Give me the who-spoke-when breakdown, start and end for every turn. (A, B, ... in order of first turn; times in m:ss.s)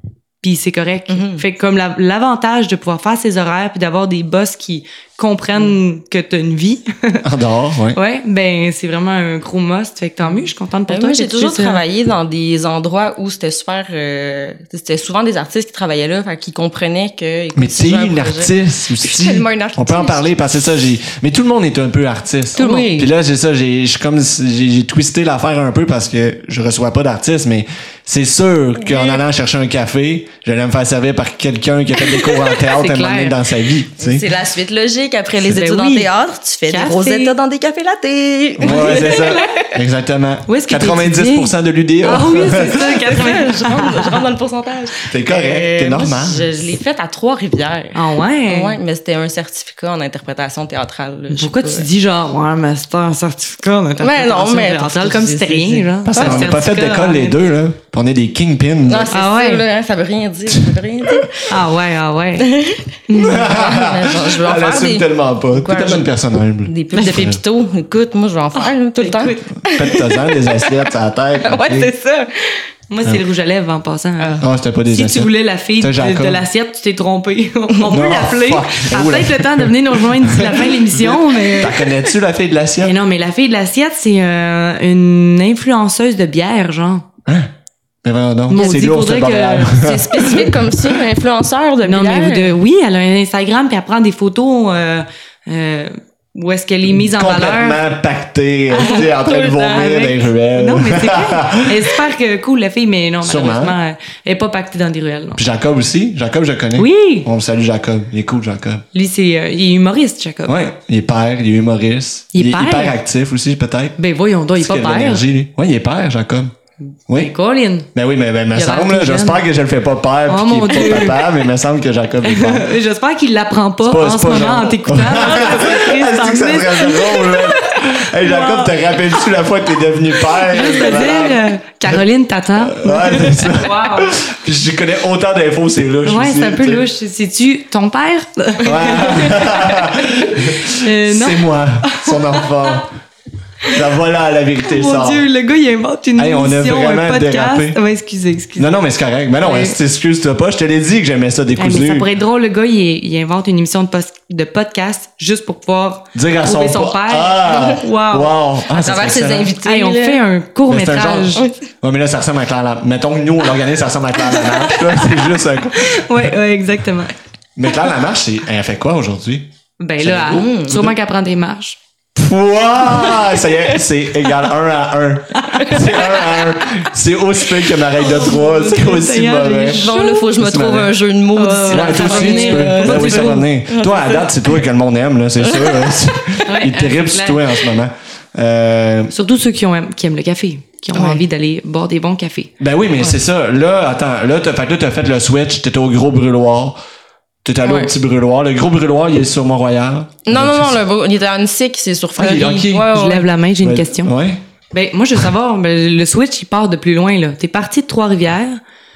0:00.4-0:07.2 A
0:01.1-0:01.4 B
0:07.2-0:08.0 C
0:07.9-0:11.8 A
0:10.3-0:20.3 B
0:17.5-0:34.3 C
0:22.6-0:23.1 B
0:22.6-0:22.9 A
0:28.8-0:29.2 B
0:32.0-0:32.7 B
0:32.8-0:33.3 A
0:34.0-0:39.7 B
0:35.4-0:36.1 A
0:36.7-0:37.3 A
0:38.6-0:43.0 C
0:38.7-0:39.0 A
0:40.5-0:44.2 A
0:42.6-0:51.9 B
0:45.1-0:46.5 C
0:47.9-0:48.8 A
0:51.3-0:57.4 A
0:54.0-0:56.5 B
0:56.0-0:59.1 C
0:58.9-1:01.5 B
0:59.1-0:59.6 A
1:01.5-1:03.5 A
1:02.4-1:06.1 B
1:03.2-1:07.4 C
1:06.6-1:10.8 B
1:09.0-1:09.5 A
1:09.6-1:11.9 C
1:11.4-1:12.6 B
1:12.9-1:21.8 A
1:14.2-1:14.4 B
1:14.4-1:16.4 C
1:17.9-1:23.0 C
1:22.8-1:27.0 A
1:28.0-1:30.8 C
1:28.5-1:29.8 A
1:29.7-1:32.5 B
1:31.8-1:37.8 A
1:36.9-1:41.8 C
1:38.7-1:39.9 B
1:38.8-1:39.0 A
1:39.7-1:45.4 A
1:43.2-1:43.8 C
1:45.4-1:48.8 C
1:46.8-1:47.3 A
1:48.9-1:50.6 A
1:50.5-1:54.0 C
1:52.3-1:52.9 A
1:54.0-1:55.2 A
1:54.6-1:56.5 C
1:57.1-1:57.3 C
1:57.1-1:57.9 A
1:57.9-2:02.7 C
1:58.5-1:59.4 A
2:00.3-2:01.2 A
2:00.8-2:01.1 B
2:02.2-2:09.0 A
2:03.8-2:12.0 C
2:10.4-2:14.2 A
2:12.6-2:16.9 C
2:16.0-2:22.5 A
2:18.6-2:22.9 C
2:23.7-2:25.2 C
2:24.6-2:28.7 A
2:26.2-2:27.8 C
2:28.6-2:32.1 C
2:29.4-2:29.8 A
2:31.6-2:38.3 A
2:36.1-2:39.5 C
2:37.5-2:37.8 B
2:38.7-2:40.2 B
2:39.6-2:41.5 A
2:40.7-2:46.2 C
2:44.8-2:45.1 A
2:45.8-2:47.1 A
2:47.6-2:49.5 C
2:49.8-2:51.8 A
2:50.0-2:50.8 C
2:50.3-2:50.9 B
2:52.1-3:01.0 C
2:53.0-2:53.2 A
2:55.4-2:56.2 A
2:55.6-2:56.2 B
2:58.0-3:00.2 A
2:59.6-3:04.4 B
3:01.3-3:03.5 A
3:01.7-3:09.1 C
3:05.4-3:06.4 B
3:06.4-3:07.4 A
3:09.1-3:12.5 A
3:11.0-3:11.2 B
3:12.6-3:16.8 C
3:17.4-3:20.8 C
3:17.6-3:17.9 B
3:20.2-3:23.3 B
3:22.2-3:22.9 C
3:22.8-3:24.1 A
3:23.6-3:24.4 C
3:24.7-3:28.6 A